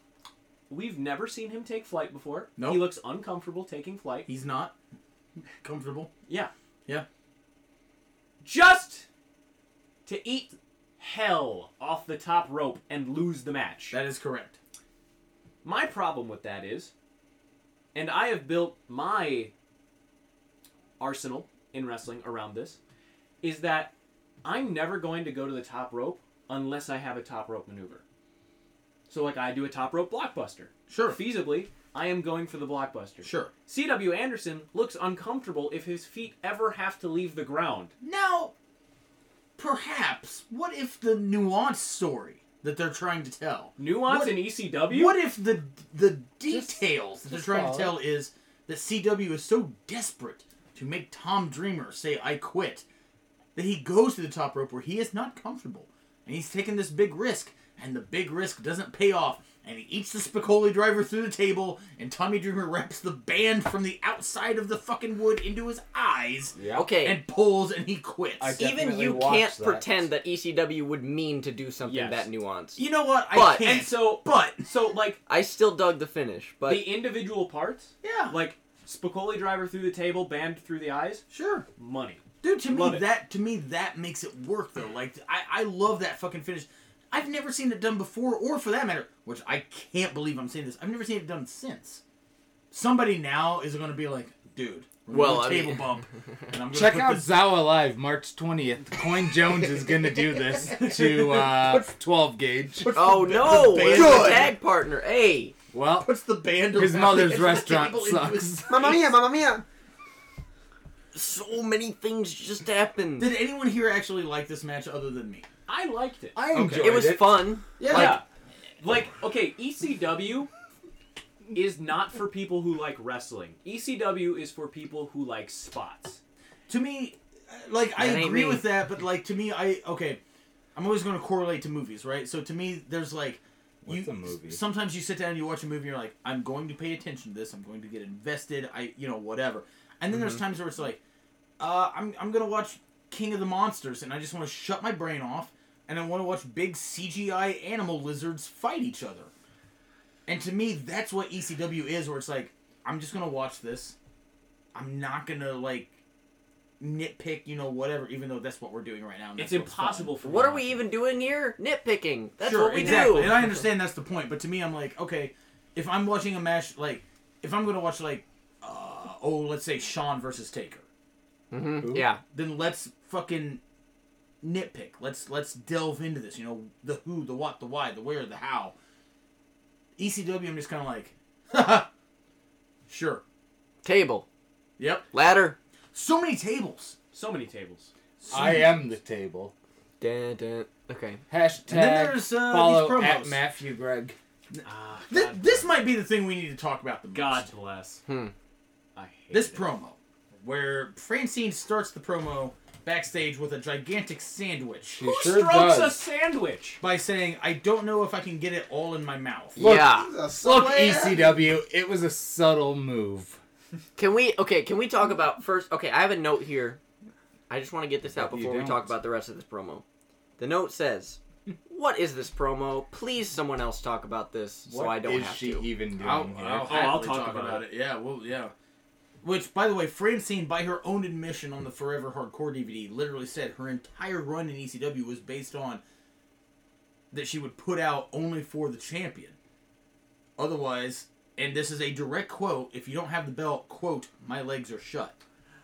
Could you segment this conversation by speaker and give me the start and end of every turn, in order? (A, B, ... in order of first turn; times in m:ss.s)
0:00.7-0:04.3 A
0:02.6-0:02.8 B
0:04.3-0:04.7 B
0:05.6-0:06.1 B
0:08.4-0:09.1 A
0:10.1-0:14.0 A
0:13.9-0:14.6 B
0:15.6-0:16.9 A
0:17.9-0:19.5 A
0:21.0-0:22.8 A
0:23.4-0:28.0 A
0:29.1-0:37.9 A
0:30.9-0:31.2 B
0:33.2-0:33.5 B
0:38.0-0:38.5 B
0:39.6-0:52.8 B
0:43.8-0:45.2 A
0:46.5-0:48.0 C
0:53.6-1:08.6 B
1:06.6-1:06.9 C
1:06.7-1:07.2 D
1:08.4-1:09.9 C
1:08.6-1:13.6 D
1:11.8-1:12.3 A
1:12.8-1:14.7 B
1:13.6-1:15.2 A
1:15.3-1:16.9 D
1:16.7-1:21.3 A
1:18.0-1:18.4 B
1:21.3-1:21.7 B
1:21.8-1:23.0 A
1:22.4-1:32.0 B
1:32.7-1:37.3 B
1:35.1-1:35.9 D
1:36.7-1:43.0 C
1:40.5-1:41.9 B
1:42.8-1:44.6 B
1:42.9-1:45.6 D
1:43.9-1:44.5 E
1:45.7-1:46.1 C
1:46.0-1:49.1 B
1:46.7-1:48.7 C
1:48.7-1:49.6 E
1:51.1-1:53.3 D
1:53.2-1:55.5 B
1:55.7-1:56.7 A
1:56.4-1:57.5 C
1:56.5-1:57.0 B
1:56.8-1:58.2 D
1:57.8-1:58.2 B
1:57.8-1:58.2 A
1:58.8-2:00.5 A
2:01.5-2:06.2 A
2:06.7-2:10.2 B
2:08.0-2:08.7 D
2:10.8-2:21.0 B
2:13.8-2:14.6 C
2:21.6-2:29.3 B
2:30.3-2:34.0 B
2:34.7-2:35.9 B
2:36.8-2:40.2 B
2:39.4-2:40.8 A
2:40.2-2:43.4 D
2:42.4-2:50.8 B
2:42.8-2:43.3 A
2:51.5-2:52.2 D
2:51.8-2:52.1 C
2:52.2-2:53.6 B
2:54.4-2:58.8 B
3:00.0-3:01.9 B
3:02.9-3:03.2 B
3:03.8-3:04.3 D
3:04.8-3:05.1 B
3:05.1-3:05.6 D
3:05.9-3:07.0 B
3:07.1-3:07.9 A
3:08.2-3:08.8 B
3:08.3-3:09.5 C
3:10.0-3:11.2 D
3:11.3-3:14.2 C
3:11.7-3:13.4 B
3:14.5-3:17.5 B
3:14.6-3:15.7 A
3:17.1-3:18.0 A
3:18.1-3:18.3 D
3:19.0-3:19.7 A
3:19.3-3:25.0 B
3:25.0-3:26.0 C
3:25.0-3:26.8 A
3:26.8-3:29.7 B
3:29.6-3:30.1 D
3:29.6-3:29.9 C
3:29.6-3:31.5 E
3:30.4-3:33.4 C
3:34.0-3:36.8 D
3:37.5-3:39.8 D
3:38.1-3:38.9 C
3:40.4-3:45.7 D
3:44.7-3:46.9 C
3:46.0-3:48.5 B
3:46.6-3:47.7 A
3:49.2-3:55.8 B
3:57.1-3:59.4 B
4:00.4-4:05.2 B